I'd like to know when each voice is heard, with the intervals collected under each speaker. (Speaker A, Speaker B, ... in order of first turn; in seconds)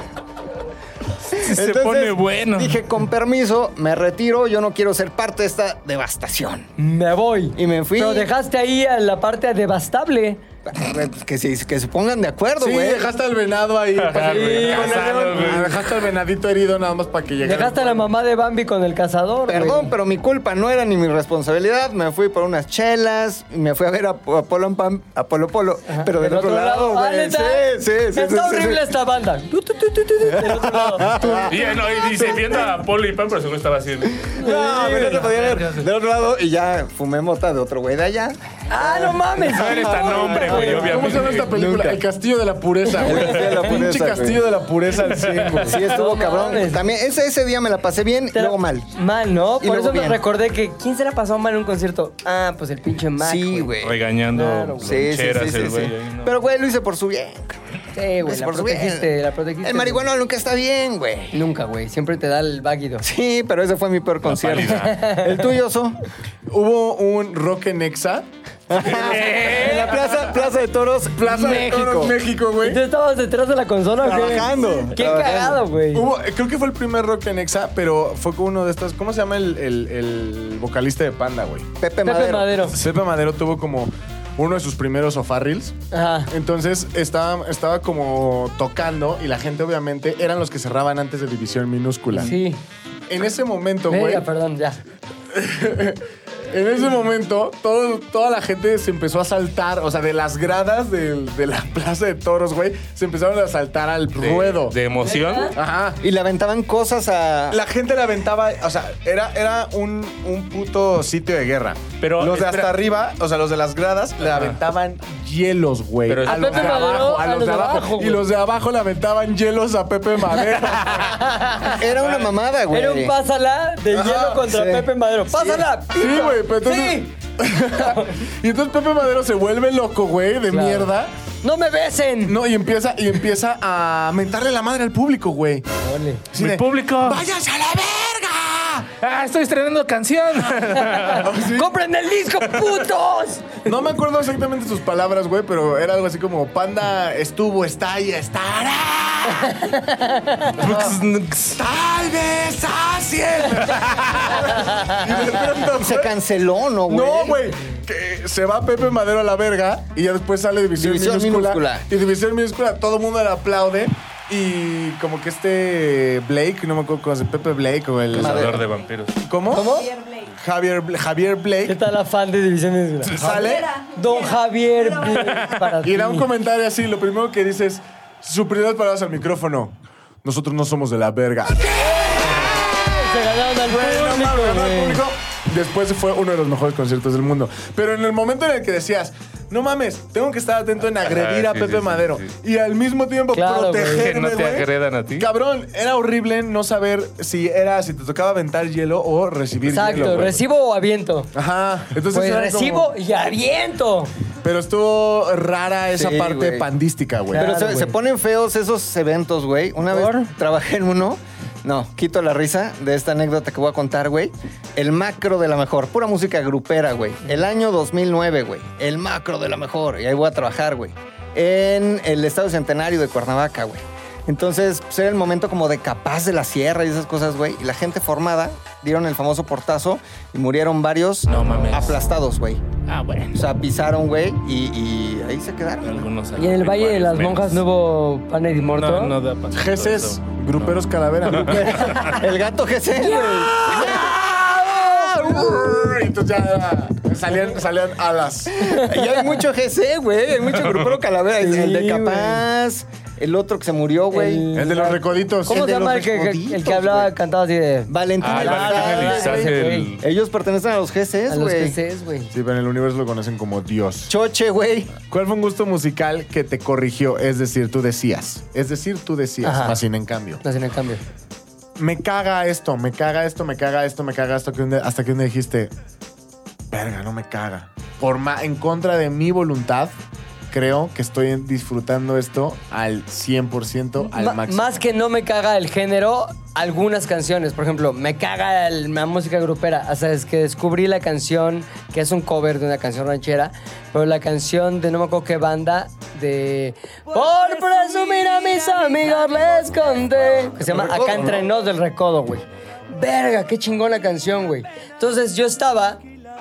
Speaker A: 1.3-2.8, 14.0-16.0, 31.4-34.3, 34.9-35.9, 39.4-41.5, 45.0-45.6, 53.8-56.3, 64.2-65.0, 68.7-70.2, 104.2-105.5, 112.0-112.7, 116.1-116.9, 122.0-122.3, 136.3-137.2, 139.0-141.3, 150.6-151.6, 168.1-169.2, 175.2-175.5, 191.0-192.3, 194.0-195.3, 231.3-232.1, 232.9-233.4, 235.8-237.6, 238.5-242.2, 250.5-251.0, 258.2-260.0
Speaker B: 1.3-6.7, 7.5-8.3, 10.7-13.1, 19.5-28.9, 30.3-32.7, 34.2-42.0, 43.0-44.4, 45.6-48.9, 49.6-50.2, 53.2-54.0, 54.8-57.6, 58.2-59.1, 59.6-61.4, 63.0-66.0, 68.7-72.2, 74.0-75.6, 81.8-82.5, 106.0-107.6, 121.6-123.1, 124.4-125.6, 155.7-157.4, 160.8-161.8, 168.2-168.6, 205.9-206.7, 207.3-232.6, 233.3-236.1, 241.8-244.0, 248.6-254.5, 255.5-257.1, 257.9-261.8, 264.1-264.9, 300.6-301.4
Speaker C: 6.8-10.4, 14.2-15.3, 17.4-19.9, 25.9-31.5, 34.4-35.3, 38.7-41.0, 42.9-43.6, 45.7-46.8, 48.3-53.7, 54.3-55.0, 57.9-60.0, 61.3-63.0, 64.7-65.4, 72.6-76.1, 82.0-82.8, 85.9-86.3, 92.1-92.6, 93.9-94.8, 105.0-105.5, 116.2-118.2, 121.0-121.8, 122.7-127.1, 127.7-128.1, 130.5-130.9, 131.4-132.4, 135.8-136.2, 140.7-143.7, 149.4-150.6, 154.6-155.0, 169.5-169.9, 171.7-173.2, 173.9-176.3, 181.8-185.0, 193.3-194.1, 199.7-201.3, 202.1-204.1, 207.3-207.9, 209.9-210.3, 236.4-239.2, 242.9-245.7, 248.7-249.3, 251.4-252.4, 254.1-259.9, 261.3-262.3, 269.4-269.8, 270.4-271.0, 284.0-306.0
Speaker D: 12.6-18.1, 40.6-45.8, 66.5-68.2, 71.1-72.8, 74.1-75.0, 75.9-81.7, 82.7-85.7, 86.3-92.3, 93.1-94.2, 95.3-104.8, 105.5-106.0, 107.5-121.2, 123.9-124.4, 125.9-131.1, 132.2-135.7, 136.3-138.9, 141.2-141.7, 143.6-149.6, 150.6-156.1, 156.8-168.6, 169.3-169.7, 170.3-171.8, 173.1-173.7, 175.8-200.4, 201.3-202.9, 204.4-207.4, 239.5-242.2, 243.3-248.8, 254.5-255.8, 262.3-264.1, 265.1-270.4, 271.8-275.7, 276.7-279.9, 280.5-284.7
Speaker E: 169.6-170.3, 173.2-175.7, 297.2-299.8